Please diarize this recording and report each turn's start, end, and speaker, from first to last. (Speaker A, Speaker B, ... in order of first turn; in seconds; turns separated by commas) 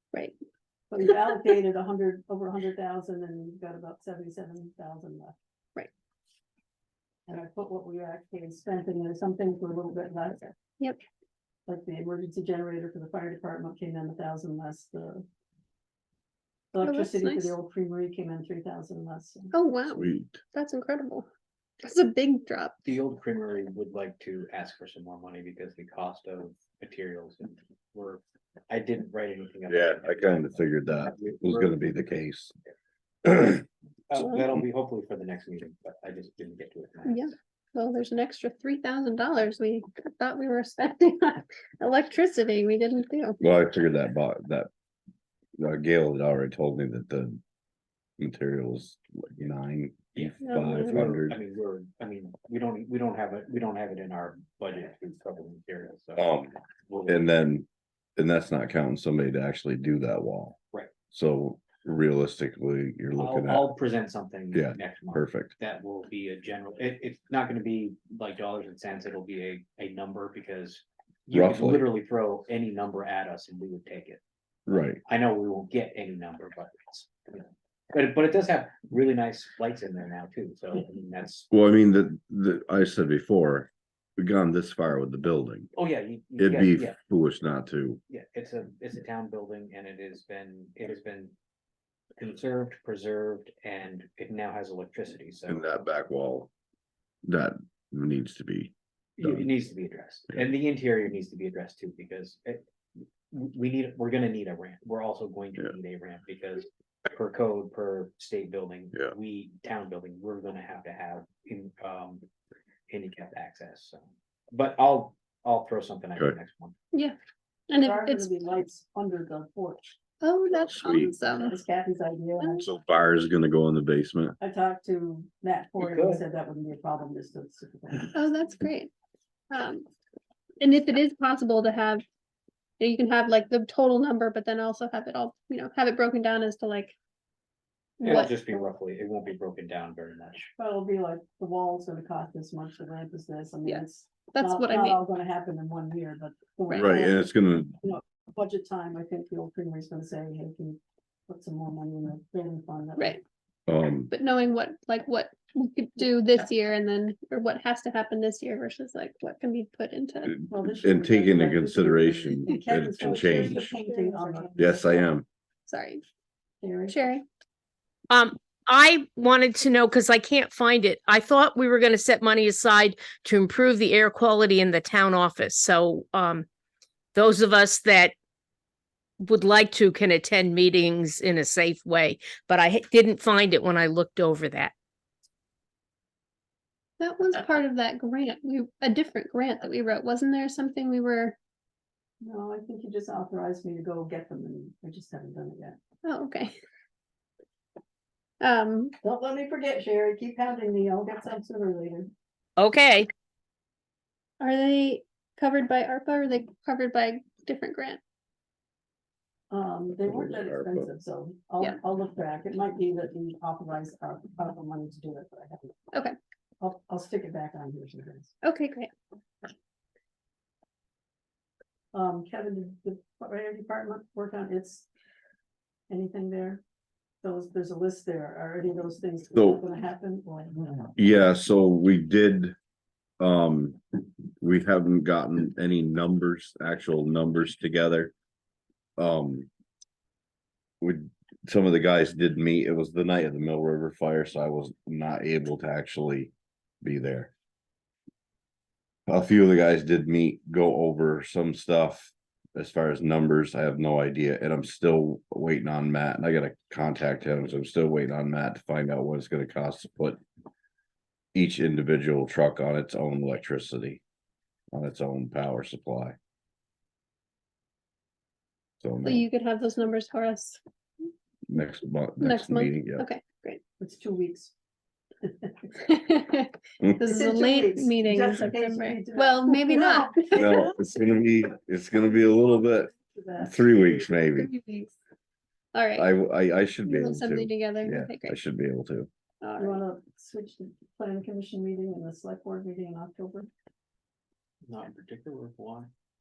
Speaker A: 0.9-5.3, Speaker A: 7.3-10.6, Speaker A: 11.7-15.2, Speaker A: 16.7-19.5, Speaker B: 16.8-17.6, Speaker B: 19.5-21.3, Speaker C: 19.9-20.4, Speaker B: 21.8-22.8, Speaker D: 22.8-31.8, Speaker C: 29.7-32.5, Speaker C: 33.2-33.6, Speaker D: 34.1-37.3, Speaker B: 37.0-43.4, Speaker C: 43.4-44.7, Speaker C: 45.6-47.4, Speaker C: 48.2-51.4, Speaker D: 50.1-56.3, Speaker B: 50.4-51.0, Speaker C: 56.2-56.5, Speaker D: 56.9-57.2, Speaker C: 57.0-60.6, Speaker C: 61.1-63.7, Speaker D: 63.1-74.2, Speaker C: 64.5-65.5, Speaker C: 71.3-71.8, Speaker C: 74.7-75.0, Speaker D: 75.0-81.5, Speaker C: 81.5-85.7, Speaker D: 85.7-87.0, Speaker C: 86.4-88.0, Speaker D: 88.1-91.3, Speaker D: 92.2-95.7, Speaker C: 95.5-96.5, Speaker C: 97.2-98.7, Speaker D: 99.2-102.7, Speaker D: 103.3-112.2, Speaker D: 112.9-116.7, Speaker B: 117.7-118.3, Speaker A: 117.7-120.0, Speaker B: 120.2-121.5, Speaker C: 120.5-121.1, Speaker A: 121.2-122.7, Speaker C: 122.6-124.3, Speaker A: 124.4-128.2, Speaker D: 125.8-126.2, Speaker B: 128.1-128.9, Speaker B: 129.5-129.9, Speaker B: 130.6-132.0, Speaker B: 132.8-136.9, Speaker B: 138.0-138.3, Speaker D: 138.0-140.5, Speaker A: 140.6-153.2, Speaker B: 143.6-145.0, Speaker C: 146.7-147.7, Speaker C: 153.7-154.1, Speaker B: 154.1-160.4, Speaker C: 160.3-163.7, Speaker A: 160.5-165.1, Speaker B: 163.7-164.2, Speaker C: 164.6-165.2, Speaker B: 165.7-166.0, Speaker A: 166.6-167.2, Speaker B: 166.9-167.2, Speaker E: 168.1-176.4, Speaker E: 177.1-178.1, Speaker E: 179.2-184.7, Speaker B: 187.0-191.3, Speaker A: 192.2-195.8, Speaker B: 196.0-196.6, Speaker B: 198.4-198.9, Speaker A: 199.0-202.1, Speaker E: 202.6-203.1, Speaker B: 204.4-208.0, Speaker A: 209.5-215.8, Speaker C: 210.0-210.9, Speaker A: 216.6-218.3, Speaker B: 218.4-218.9, Speaker A: 221.9-224.9, Speaker A: 225.9-226.6, Speaker A: 227.2-230.9, Speaker C: 229.3-229.6, Speaker C: 230.9-232.5, Speaker C: 233.2-233.8, Speaker C: 234.4-238.1, Speaker C: 239.0-239.5, Speaker C: 240.8-247.3, Speaker C: 249.1-260.2, Speaker C: 261.3-264.0, Speaker C: 264.7-266.1, Speaker C: 268.8-269.2, Speaker B: 269.0-270.6, Speaker C: 271.5-273.1, Speaker B: 272.2-273.6, Speaker A: 273.8-274.5, Speaker A: 275.2-275.7, Speaker B: 275.8-280.5, Speaker A: 277.0-280.7, Speaker C: 280.3-284.5, Speaker A: 283.1-283.7, Speaker B: 284.4-284.9, Speaker B: 285.7-286.1, Speaker C: 285.9-289.1, Speaker B: 286.8-288.4, Speaker B: 289.4-289.8, Speaker A: 289.6-293.5, Speaker D: 294.7-295.9